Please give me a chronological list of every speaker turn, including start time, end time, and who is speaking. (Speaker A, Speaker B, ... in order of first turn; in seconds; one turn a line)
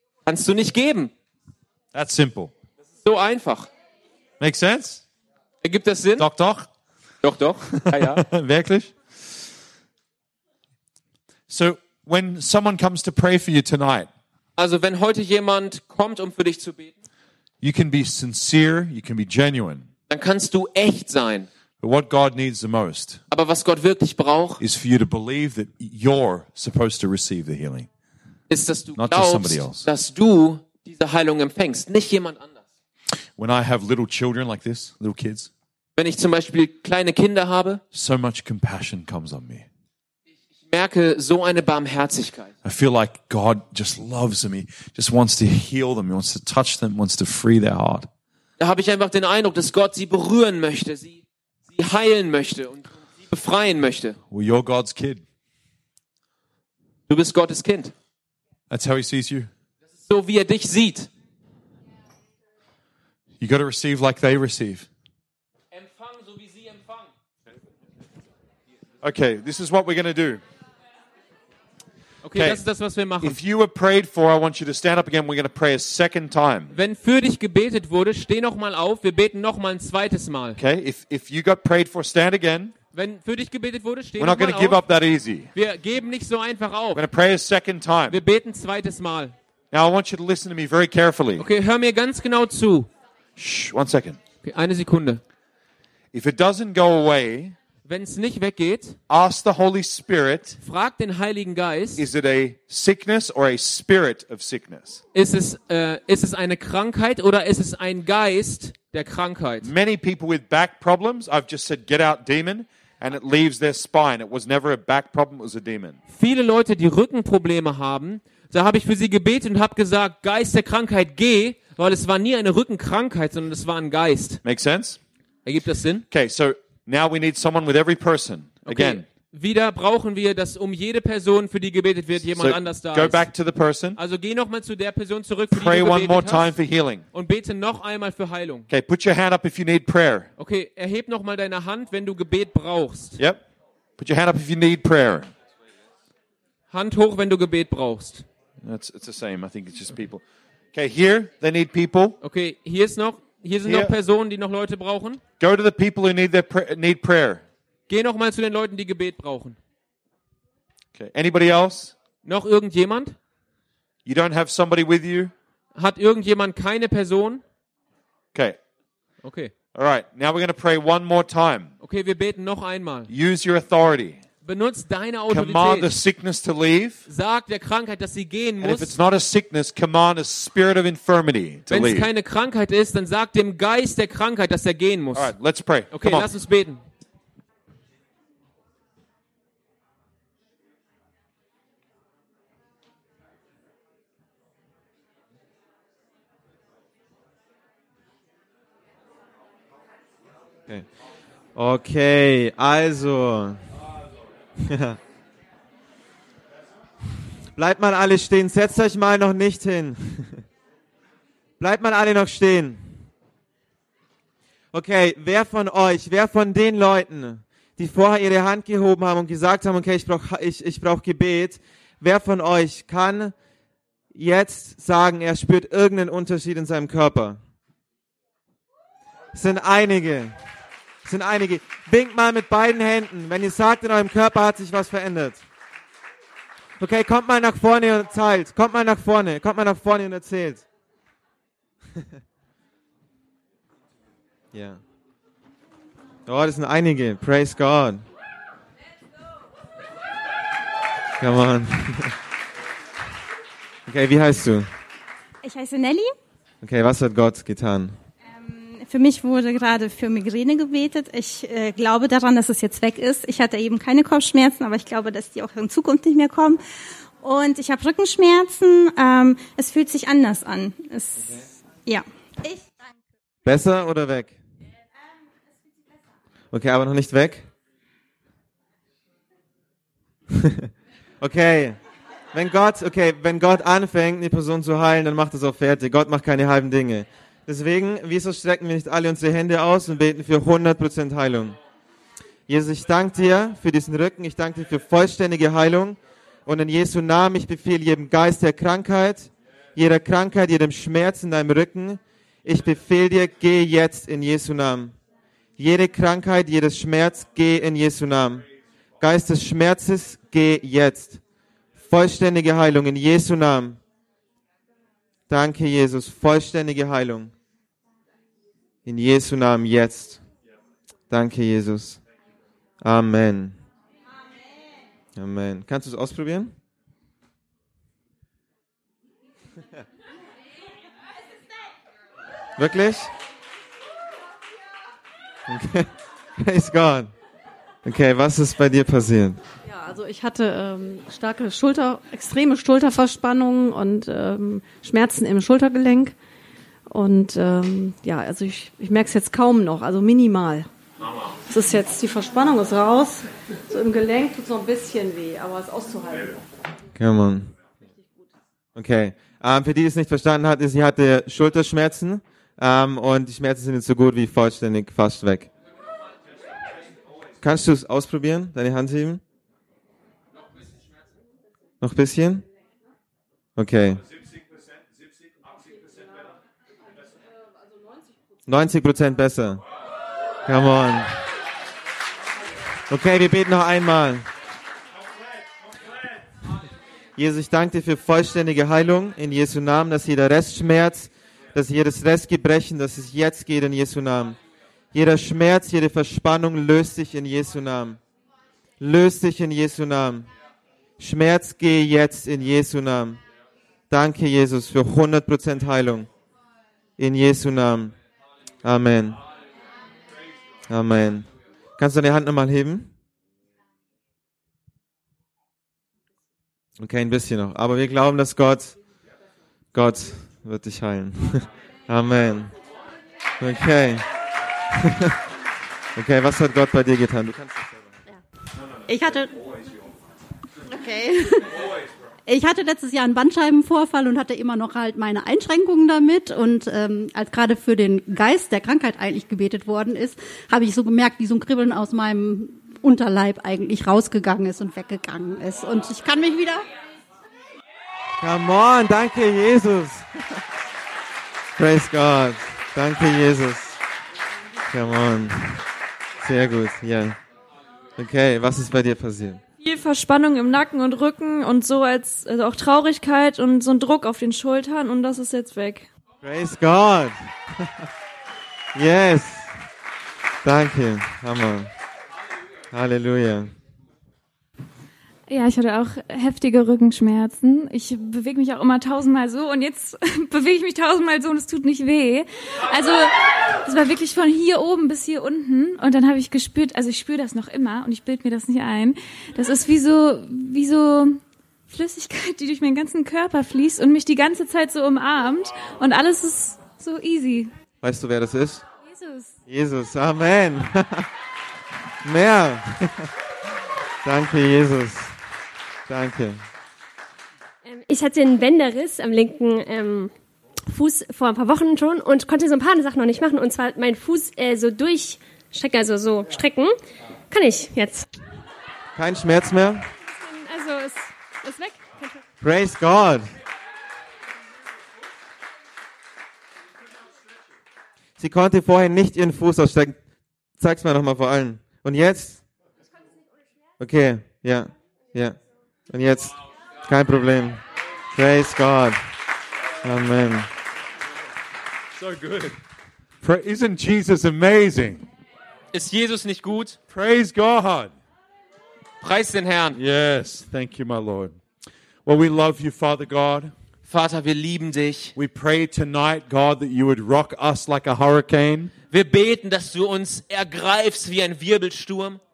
Speaker A: 0.2-1.1
Speaker B: 1.9-2.5
Speaker A: 3.0-3.7
Speaker B: 4.4-5.0
Speaker A: 5.6-6.2
Speaker B: 6.2-6.7
Speaker A: 7.2-8.2
Speaker B: 7.7-9.4
Speaker B: 11.5-14.1
Speaker A: 14.6-16.9
Speaker B: 17.6-19.9
Speaker A: 20.1-21.5
Speaker B: 21.8-23.2
Speaker A: 23.3-24.6
Speaker B: 24.6-27.9
Speaker A: 28.5-32.6
Speaker B: 28.9-29.9
Speaker B: 33.4-35.5
Speaker A: 36.0-37.8
Speaker B: 37.9-39.7
Speaker A: 40.6-42.5
Speaker B: 42.6-48.1
Speaker A: 48.6-54.2
Speaker B: 54.3-55.2
Speaker A: 57.1-57.9
Speaker B: 58.7-59.5
Speaker A: 60.1-61.1
Speaker B: 63.4-64.9
Speaker A: 65.7-67.1
Speaker B: 69.0-70.4
Speaker A: 72.2-73.4
Speaker B: 72.3-72.6
Speaker B: 73.2-76.7
Speaker A: 76.7-80.6
Speaker B: 80.5-82.7
Speaker A: 82.9-84.8
Speaker B: 84.2-85.5
Speaker A: 85.5-87.0
Speaker B: 86.9-88.2
Speaker A: 88.1-89.3
Speaker B: 89.7-91.5
Speaker A: 91.4-92.9
Speaker B: 93.4-94.2
Speaker A: 94.4-95.2
Speaker B: 96.1-97.5
Speaker A: 97.8-99.0
Speaker B: 99.1-100.6
Speaker A: 100.6-102.0
Speaker B: 102.0-105.0
Speaker A: 105.1-109.7
Speaker B: 109.6-116.0
Speaker A: 116.1-124.4
Speaker B: 124.4-125.0
Speaker A: 125.5-126.0
Speaker B: 126.1-129.0
Speaker A: 128.7-133.2
Speaker B: 132.3-134.0
Speaker A: 134.0-136.5
Speaker B: 135.5-137.0
Speaker A: 137.1-138.7
Speaker B: 138.7-140.3
Speaker A: 140.4-143.2
Speaker B: 143.2-143.4
Speaker B: 144.0-145.3
Speaker A: 146.7-148.2
Speaker B: 148.6-150.2
Speaker B: 150.7-152.2
Speaker A: 152.2-155.2
Speaker B: 153.6-153.9
Speaker B: 155.4-157.4
Speaker A: 157.9-159.6
Speaker B: 160.9-161.9
Speaker A: 162.2-163.2
Speaker B: 164.0-165.3
Speaker A: 165.8-167.4
Speaker B: 168.3-168.6
Speaker A: 169.2-169.5
Speaker B: 169.7-171.7
Speaker A: 171.8-173.1
Speaker B: 173.1-174.2
Speaker A: 174.4-175.9
Speaker B: 175.3-177.0
Speaker A: 177.1-178.9
Speaker B: 178.6-182.1
Speaker A: 181.7-185.3
Speaker B: 185.1-186.3
Speaker A: 185.9-186.8
Speaker C: 201.5-203.7
Speaker C: 204.6-205.0
Speaker C: 207.5-210.4
Speaker C: 211.6-213.0
Speaker C: 214.7-223.3
Speaker C: 224.1-227.4
Speaker C: 229.3-230.4
Speaker C: 231.0-235.4
Speaker C: 236.8-240.6
Speaker C: 244.5-244.8
Speaker C: 246.3-248.1
Speaker C: 251.2-252.2
Speaker C: 253.9-254.7
Speaker D: 255.4-256.1
Speaker C: 256.6-258.0
Speaker D: 258.4-266.6
Speaker D: 267.2-272.6
Speaker C: 273.4-274.3
Speaker C: 276.5-277.4
Speaker C: 281.2-281.8
Speaker C: 282.3-291.6
Speaker C: 292.5-305.0
Speaker C: 305.6-308.5
Speaker C: 309.0-311.2
Speaker C: 311.9-313.8
Speaker C: 315.3-317.3
Speaker C: 318.8-320.2
Speaker C: 321.1-322.0
Speaker C: 322.8-323.6
Speaker C: 325.1-326.5
Speaker C: 332.6-333.1
Speaker C: 335.5-337.1
Speaker C: 337.8-339.4
Speaker E: 339.6-346.1
Speaker E: 346.9-350.7
Speaker E: 351.5-356.4
Speaker C: 356.9-357.5
Speaker C: 358.7-365.5
Speaker C: 367.4-369.2
Speaker C: 371.8-372.4
Speaker C: 373.6-374.0
Speaker C: 378.4-379.6
Speaker C: 380.4-381.1
Speaker C: 382.9-384.3
Speaker C: 387.2-394.4
Speaker C: 394.9-398.0
Speaker C: 398.8-400.3
Speaker C: 401.0-403.2
Speaker C: 403.9-406.1
Speaker C: 407.0-407.9
Speaker C: 408.6-409.2
Speaker C: 410.7-412.9
Speaker C: 416.8-418.8
Speaker C: 419.7-422.5
Speaker C: 423.4-424.1
Speaker C: 424.8-425.1
Speaker C: 425.9-427.6
Speaker D: 428.9-429.2
Speaker F: 430.7-431.4
Speaker F: 432.3-446.6
Speaker C: 448.2-450.1
Speaker C: 451.6-453.8
Speaker C: 454.7-455.6
Speaker C: 456.2-457.2
Speaker C: 458.0-459.4
Speaker G: 459.6-465.9
Speaker C: 466.2-467.8
Speaker C: 468.7-469.5
Speaker C: 470.4-471.7
Speaker C: 472.7-473.5
Speaker G: 475.3-497.5
Speaker C: 497.8-498.6
Speaker G: 498.9-499.3
Speaker C: 499.5-501.1
Speaker C: 502.0-503.1
Speaker C: 504.0-505.1
Speaker C: 505.9-506.4
Speaker H: 507.6-510.1
Speaker H: 510.7-516.8
Speaker H: 517.3-518.0
Speaker C: 519.0-519.9
Speaker G: 520.3-521.8
Speaker C: 522.4-523.3
Speaker C: 528.2-530.0
Speaker C: 530.6-532.4
Speaker C: 533.8-537.6
Speaker C: 538.1-539.0
Speaker C: 539.8-540.5
Speaker B: 542.0-542.6
Speaker B: 543.2-545.0
Speaker A: 545.7-546.8
Speaker B: 546.9-547.9
Speaker A: 549.0-549.8
Speaker B: 549.7-551.4
Speaker B: 552.0-553.5
Speaker A: 553.9-555.1
Speaker B: 555.1-558.7
Speaker A: 558.9-562.2